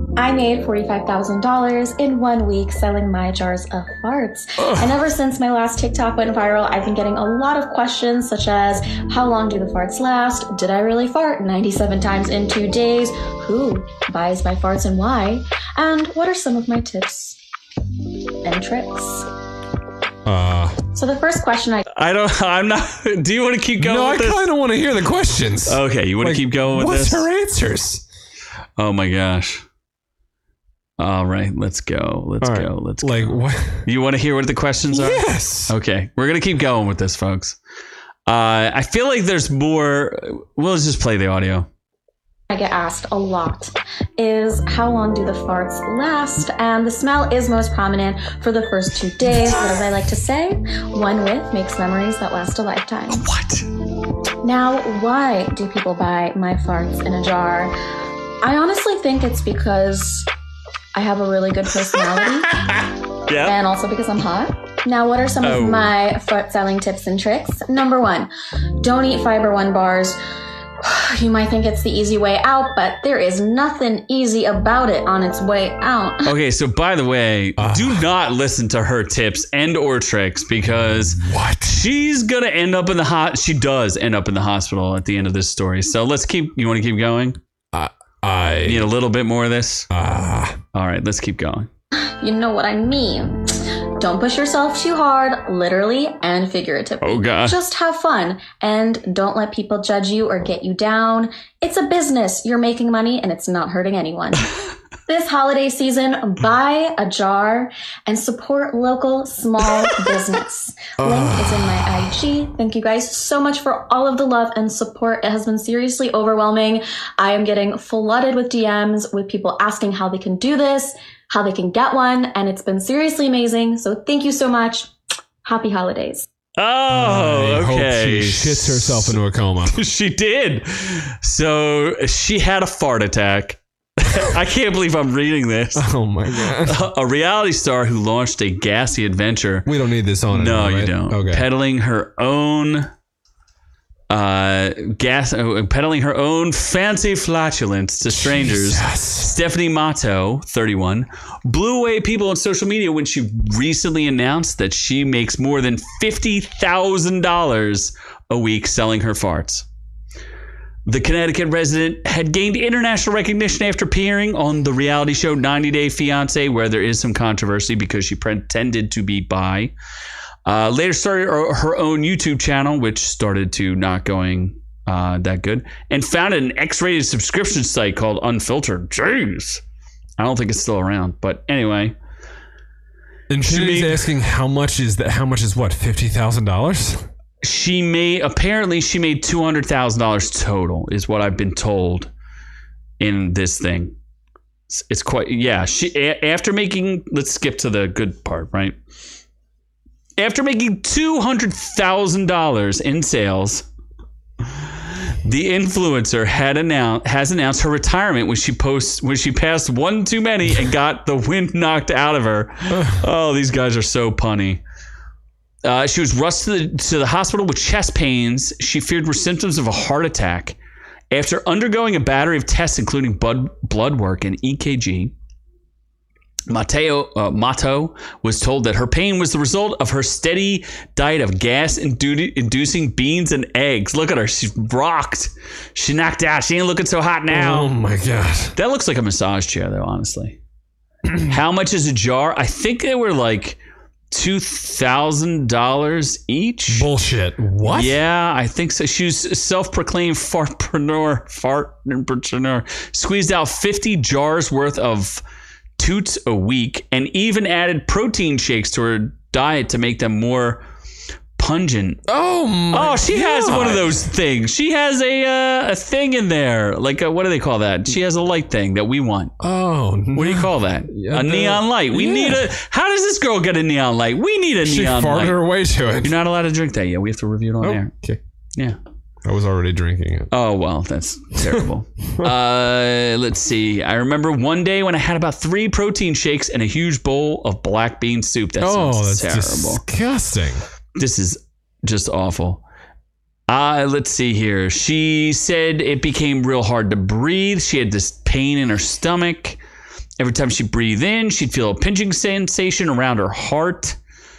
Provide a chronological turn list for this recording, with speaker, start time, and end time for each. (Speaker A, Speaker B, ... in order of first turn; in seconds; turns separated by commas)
Speaker A: 0.2-17.4, Speaker B: 4.6-4.9, Speaker A: 18.4-19.3, Speaker B: 20.2-20.8, Speaker A: 20.9-21.8, Speaker C: 21.9-24.5, Speaker B: 23.8-28.0, Speaker C: 25.6-27.3, Speaker C: 28.8-29.6, Speaker C: 31.0-37.6, Speaker B: 32.4-33.9, Speaker B: 34.9-35.7, Speaker C: 38.2-41.7, Speaker A: 42.5-53.2, Speaker C: 53.1-53.7, Speaker A: 54.4-57.7, Speaker A: 58.4-60.3, Speaker A: 60.9-62.6, Speaker C: 61.8-63.6, Speaker A: 63.4-68.3, Speaker C: 65.4-65.9, Speaker A: 68.8-70.2, Speaker A: 70.8-76.3, Speaker C: 76.2-87.4, Speaker B: 77.6-78.1, Speaker B: 80.8-81.8, Speaker B: 87.7-88.9, Speaker C: 88.6-89.9, Speaker B: 89.9-90.6, Speaker C: 90.7-91.7, Speaker A: 92.2-104.5, Speaker C: 97.0-97.6, Speaker A: 105.1-124.9, Speaker B: 111.0-112.1, Speaker A: 125.4-126.2, Speaker C: 126.6-135.9, Speaker B: 126.9-129.8, Speaker B: 135.7-136.8, Speaker C: 136.5-139.7, Speaker B: 139.7-141.5, Speaker C: 140.3-142.9, Speaker C: 144.1-159.7, Speaker B: 148.1-149.4, Speaker C: 160.8-169.7, Speaker C: 170.4-179.6, Speaker C: 180.2-181.9, Speaker B: 183.3-187.1, Speaker C: 183.4-184.0, Speaker C: 187.4-192.1, Speaker C: 193.0-193.9, Speaker C: 194.7-198.8, Speaker C: 200.2-203.6, Speaker C: 205.2-214.6, Speaker B: 212.7-213.0, Speaker C: 215.6-220.6, Speaker C: 221.1-225.1, Speaker C: 226.5-237.7, Speaker B: 237.3-238.5, Speaker C: 238.5-240.4, Speaker C: 241.2-243.6, Speaker C: 244.1-246.9, Speaker B: 246.7-248.0, Speaker C: 247.6-255.2, Speaker C: 255.8-260.6, Speaker C: 261.4-262.0, Speaker B: 262.1-264.0, Speaker C: 262.7-269.3, Speaker B: 269.4-272.5, Speaker C: 270.1-275.4, Speaker B: 274.6-276.1, Speaker C: 276.0-277.9, Speaker B: 277.6-278.2, Speaker B: 279.2-280.3, Speaker C: 280.3-289.8, Speaker B: 288.6-290.6, Speaker C: 290.9-292.6, Speaker C: 293.5-299.6, Speaker C: 300.2-304.0